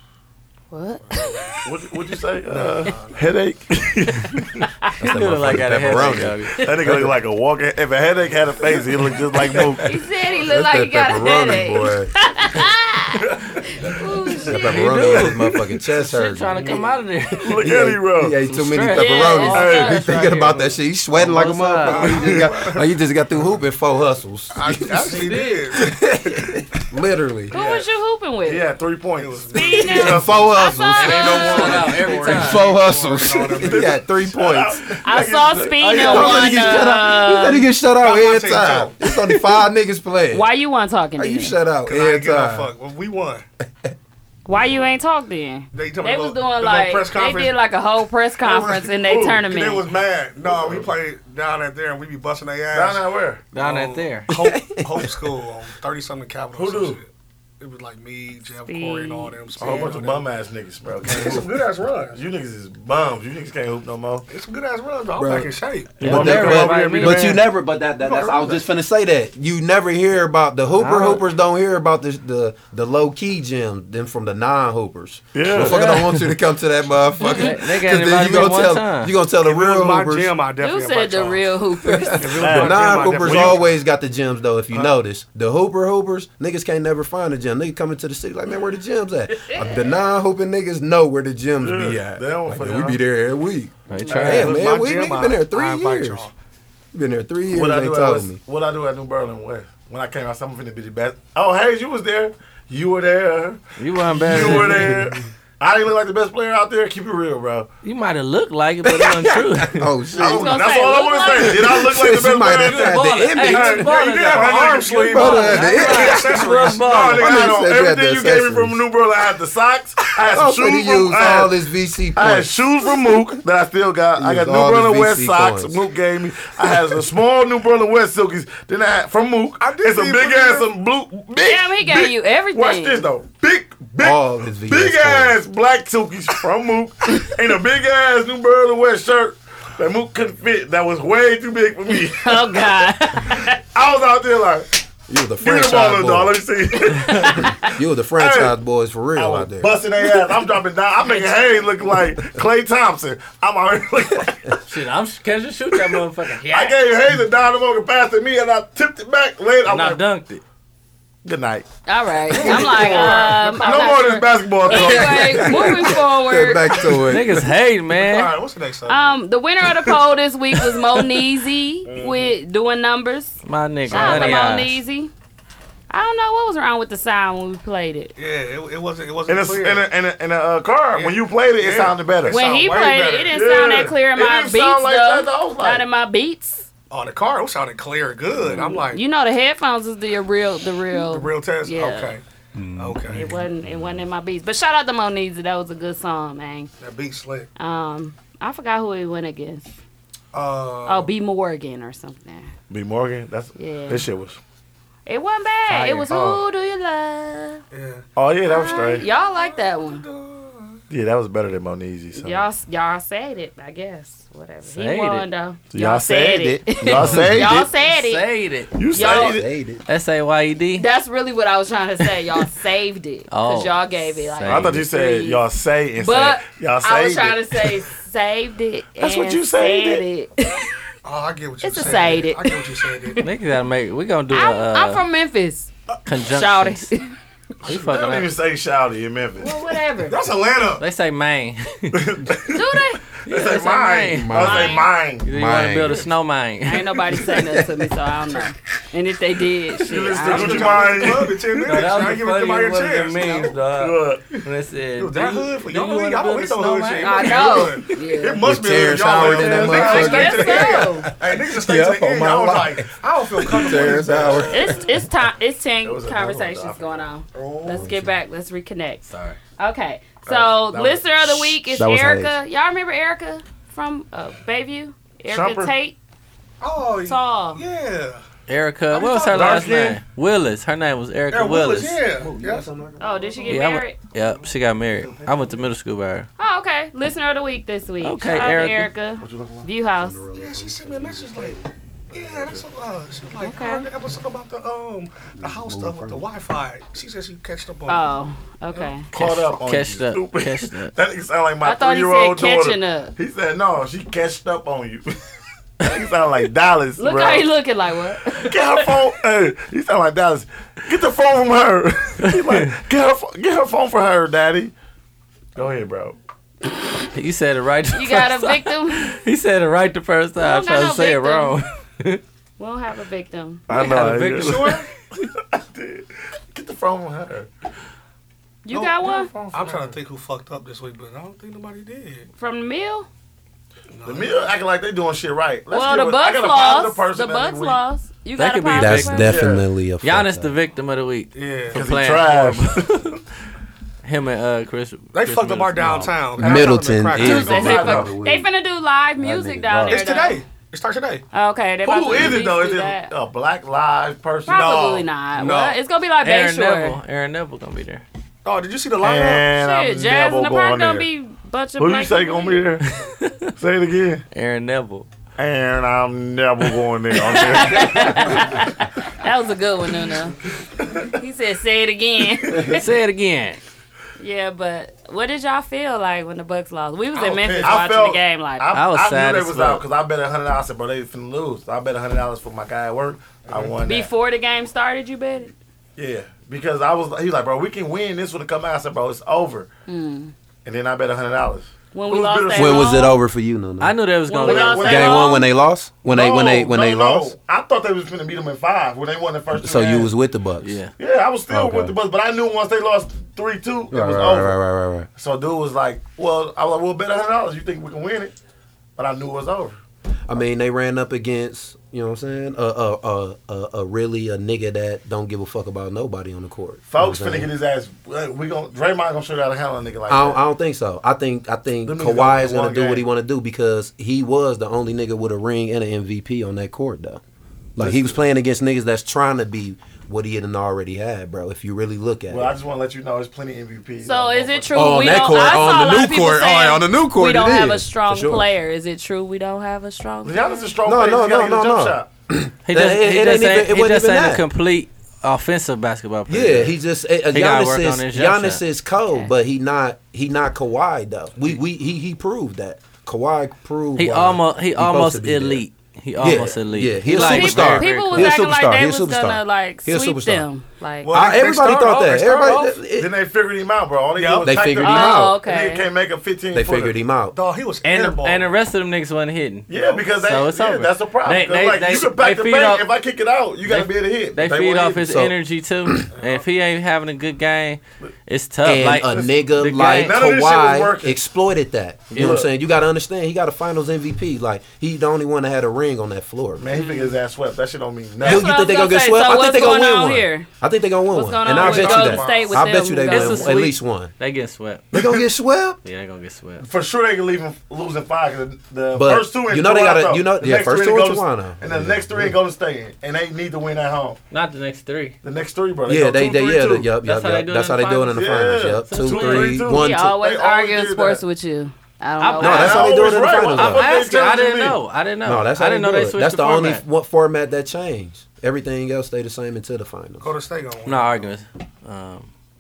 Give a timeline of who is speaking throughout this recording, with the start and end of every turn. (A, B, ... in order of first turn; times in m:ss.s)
0:00.7-0:01.6 A
0:01.1-0:01.6 B
0:01.6-0:04.7 C
0:02.5-0:03.2 B
0:05.0-0:07.2 D
0:05.0-0:06.6 E
0:05.9-0:09.8 C
0:09.8-0:15.0 A
0:10.4-0:12.1 D
0:13.2-0:13.6 C
0:14.4-0:16.8 D
0:14.6-0:17.6 E
0:16.6-0:16.9 B
0:17.4-0:18.4 C
0:17.5-0:27.5 D
0:18.5-0:22.3 E
0:18.9-0:20.0 A
0:19.5-0:20.0 C
0:21.9-0:22.8 B
0:22.3-0:22.5 C
0:24.5-0:26.2 B
0:25.0-0:25.8 E
0:27.5-0:27.9 C
0:27.5-0:28.6 A
0:28.5-0:30.8 C
0:29.2-0:30.2 B
0:29.5-0:31.9 A
0:29.9-0:35.0 D
0:31.0-0:34.0 B
0:31.2-0:32.7 E
0:33.6-0:37.0 C
0:35.0-0:37.7 A
0:36.0-0:40.5 D
0:38.0-0:39.0 B
0:40.3-0:41.6 A
0:41.2-0:42.7 D
0:41.9-0:43.4 B
0:44.5-0:49.9 A
0:45.7-0:47.6 B
0:48.5-0:49.4 C
0:49.4-0:53.0 B
0:50.5-0:50.9 C
0:52.7-0:53.4 C
0:53.5-0:54.3 E
0:53.6-0:57.1 B
0:54.3-0:55.1 D
0:56.5-0:57.0 C
0:57.6-1:00.3 B
0:58.7-0:59.4 A
0:59.6-1:04.3 C
1:01.0-1:02.2 B
1:04.3-1:06.0 B
1:05.2-1:20.3 D
1:06.0-1:07.4 C
1:06.0-1:07.4 E
1:08.0-1:08.6 B
1:10.8-1:11.2 E
1:15.3-1:15.9 C
1:15.6-1:16.3 E
1:17.2-1:19.1 E
1:19.4-1:21.5 B
1:20.6-1:22.3 A
1:21.9-1:36.3 D
1:22.2-1:23.7 B
1:22.4-1:23.6 C
1:31.6-1:33.0 C
1:33.9-1:34.6 E
1:34.1-1:34.7 C
1:34.2-1:36.3 B
1:36.9-1:38.4 D
1:37.5-1:47.7 C
1:43.8-1:45.0 E
1:44.3-1:45.1 D
1:47.8-1:49.8 E
1:49.0-1:53.9 D
1:50.2-1:51.8 A
1:50.2-1:55.3 C
1:52.6-1:57.5 E
1:53.4-1:57.5 B
1:55.1-1:58.8 D
1:56.9-2:01.6 C
2:00.3-2:02.6 D
2:02.1-2:24.8 C
2:04.2-2:05.8 D
2:09.6-2:10.7 B
2:11.4-2:13.1 A
2:14.0-2:15.4 D
2:21.9-2:23.6 A
2:25.1-2:26.4 D
2:25.4-2:28.5 C
2:26.9-2:27.5 A
2:27.7-2:29.7 D
2:29.2-2:34.6 C
2:31.0-2:31.7 A
2:34.7-2:36.8 E
2:35.7-2:40.0 C
2:39.7-2:40.4 E
2:41.2-2:41.7 C
2:41.9-2:46.9 A
2:42.3-2:45.7 C
2:42.4-2:44.1 B
2:44.7-2:47.5 D
2:47.1-2:48.3 E
2:48.1-2:49.2 B
2:48.9-2:53.4 A
2:51.8-2:52.3 C
2:53.4-2:54.8 E
2:53.9-2:55.1 A
2:53.9-2:54.4 C
2:53.9-2:54.2 B
2:55.9-2:58.1 A
2:58.2-2:59.9 B
2:59.3-3:02.5 C
3:00.9-3:03.4 B
3:02.3-3:06.7 A
3:03.3-3:05.8 C
3:06.9-3:09.0 B
3:08.5-3:12.2 A
3:10.9-3:12.2 B
3:12.8-3:13.3 B
3:13.1-3:16.7 A
3:16.8-3:17.5 B
3:17.6-3:19.7 A
3:20.3-3:21.1 B
3:20.9-3:22.5 A
3:22.7-3:24.4 C
3:23.6-3:24.1 A
3:25.1-3:27.6 A
3:25.7-3:26.4 C
3:27.7-3:30.8 B
3:28.2-3:29.0 C
3:28.5-3:30.0 A
3:30.9-3:32.4 C
3:32.2-3:38.2 A
3:34.7-3:35.3 E
3:35.7-3:37.7 C
3:37.0-3:37.5 D
3:37.8-3:38.7 E
3:38.8-3:39.5 C
3:38.9-3:39.4 A
3:38.9-3:39.8 D
3:39.9-3:40.9 E
3:40.8-3:45.4 A
3:42.0-3:42.4 E
3:43.3-3:44.8 E
3:44.5-3:47.8 C
3:46.0-3:50.7 A
3:49.0-3:50.0 C
3:51.0-3:53.2 B
3:51.6-3:53.3 A
3:53.2-3:55.0 E
3:54.3-3:55.7 A
3:56.1-3:56.9 E
3:56.3-3:57.1 A
3:57.6-3:58.3 E
3:57.6-3:59.5 C
3:59.4-4:00.2 A
4:00.1-4:00.8 B
4:00.8-4:02.1 E
4:01.9-4:02.7 C
4:02.5-4:03.0 A
4:03.2-4:05.3 C
4:03.3-4:04.4 E
4:04.1-4:06.0 D
4:04.4-4:04.9 A
4:05.2-4:07.0 E
4:06.6-4:11.0 A
4:07.2-4:07.8 D
4:09.9-4:11.4 C
4:10.2-4:13.6 B
4:11.6-4:17.4 E
4:13.8-4:14.3 C
4:15.0-4:24.5 B
4:16.9-4:18.4 A
4:18.4-4:24.9 D
4:18.9-4:20.7 C
4:19.8-4:21.1 A
4:22.2-4:22.8 C
4:23.6-4:24.9 C
4:24.5-4:29.0 A
4:25.8-4:27.1 C
4:27.3-4:27.9 B
4:27.7-4:28.1 D
4:29.1-4:29.4 E
4:29.6-4:36.0 A
4:30.3-4:32.3 C
4:31.8-4:32.3 D
4:35.3-4:35.7 C
4:36.6-4:38.2 B
4:37.0-4:37.6 A
4:38.5-4:42.0 E
4:38.9-4:39.8 B
4:39.3-4:40.0 C
4:41.3-4:42.7 B
4:42.2-4:43.6 D
4:43.0-4:44.0 A
4:43.5-4:46.3 E
4:46.4-4:50.2 A
4:48.0-4:48.9 E
4:49.2-4:49.7 C
4:50.0-4:51.7 D
4:50.4-4:51.6 B
4:52.1-4:58.1 B
4:52.1-4:52.6 C
4:53.4-4:53.9 A
4:55.4-4:56.2 D
4:57.9-4:59.0 A
4:59.1-5:00.9 E
4:59.1-5:05.2 C
5:01.6-5:03.1 A
5:05.8-5:07.5 C
5:07.0-5:09.0 A
5:08.3-5:14.7 C
5:12.3-5:12.7 E
5:15.6-5:16.2 C
5:17.1-5:22.2 E
5:17.9-5:19.2 A
5:20.4-5:21.6 A
5:22.6-5:23.6 A
5:23.7-5:27.5 C
5:23.7-5:24.8 E
5:24.4-5:24.9 B
5:28.6-5:29.3 A
5:28.7-5:32.3 B
5:29.0-5:30.0 C
5:32.4-5:33.1 A
5:33.9-5:34.5 B
5:34.0-5:37.8 C
5:35.7-5:39.3 A
5:38.4-5:39.3 E
5:38.8-5:40.5 D
5:39.2-5:39.6 C
5:40.0-5:43.2 E
5:41.4-5:41.8 B
5:41.7-5:43.1 C
5:44.0-5:46.2 E
5:45.1-5:47.8 B
5:45.8-5:48.5 D
5:47.1-5:50.4 A
5:47.2-5:48.2 C
5:49.2-5:50.0 D
5:49.8-5:51.3 B
5:51.3-5:53.1 A
5:51.8-5:55.0 C
5:54.5-5:57.0 A
5:54.5-5:55.8 B
5:56.2-5:58.0 E
5:58.4-5:59.5 B
5:59.0-6:01.1 C
5:59.5-6:02.7 A
6:01.8-6:02.8 C
6:03.1-6:03.3 E
6:03.6-6:04.2 C
6:04.3-6:05.1 E
6:05.4-6:08.5 C
6:07.3-6:10.4 A
6:11.2-6:12.9 A
6:12.6-6:13.6 E
6:14.2-6:18.7 A
6:17.1-6:24.1 C
6:18.7-6:19.8 E
6:23.4-6:23.7 B
6:23.8-6:25.5 A
6:26.0-6:29.7 C
6:29.9-6:30.3 A
6:30.6-6:32.9 C
6:31.9-6:33.2 A
6:32.5-6:34.0 D
6:33.8-6:35.0 E
6:34.3-6:35.5 A
6:34.4-6:35.4 C
6:34.8-6:37.3 D
6:36.0-6:40.1 C
6:39.6-6:40.8 D
6:40.6-6:40.9 E
6:41.0-6:44.6 C
6:41.5-6:42.0 D
6:43.9-6:45.1 D
6:45.2-6:48.3 C
6:49.0-6:49.8 C
6:50.3-6:57.5 D
6:56.9-7:00.4 C
7:00.1-7:07.2 D
7:01.8-7:03.0 C
7:07.8-7:12.6 D
7:07.8-7:08.2 C
7:12.3-7:15.8 C
7:14.0-7:20.7 A
7:14.7-7:18.5 D
7:20.2-7:22.1 C
7:20.8-7:24.4 D
7:22.7-7:26.7 E
7:26.3-7:35.6 D
7:27.3-7:28.6 E
7:34.0-7:38.4 E
7:36.2-7:40.5 D
7:36.2-7:36.6 C
7:37.1-7:41.2 A
7:41.0-7:42.8 B
7:41.1-7:43.1 D
7:43.0-7:47.0 C
7:44.2-7:44.6 B
7:44.4-7:45.4 D
7:44.8-7:45.9 A
7:46.5-7:47.4 D
7:47.3-7:48.5 B
7:47.8-7:52.9 E
7:49.7-7:55.0 C
7:49.7-7:50.0 B
7:53.7-8:00.2 E
7:55.0-7:55.4 D
7:56.2-7:56.4 B
7:58.6-8:06.7 D
7:58.8-7:59.3 C
7:59.8-8:01.2 C
8:02.1-8:02.4 E
8:02.2-8:02.5 C
8:06.6-8:08.5 C
8:06.7-8:07.1 A
8:08.2-8:14.1 D
8:08.2-8:10.5 A
8:11.1-8:13.7 A
8:11.5-8:12.6 B
8:13.1-8:15.0 E
8:14.9-8:15.8 D
8:15.8-8:16.6 E
8:16.6-8:24.2 C
8:18.9-8:22.4 D
8:24.3-8:25.2 E
8:25.2-8:26.9 C
8:25.9-8:30.2 D
8:27.0-8:28.2 E
8:28.1-8:31.2 C
8:28.9-8:29.6 E
8:29.7-8:33.0 A
8:32.2-8:36.8 E
8:32.4-8:33.9 D
8:32.4-8:34.8 C
8:35.2-8:40.3 D
8:40.2-8:41.3 B
8:40.9-8:42.3 E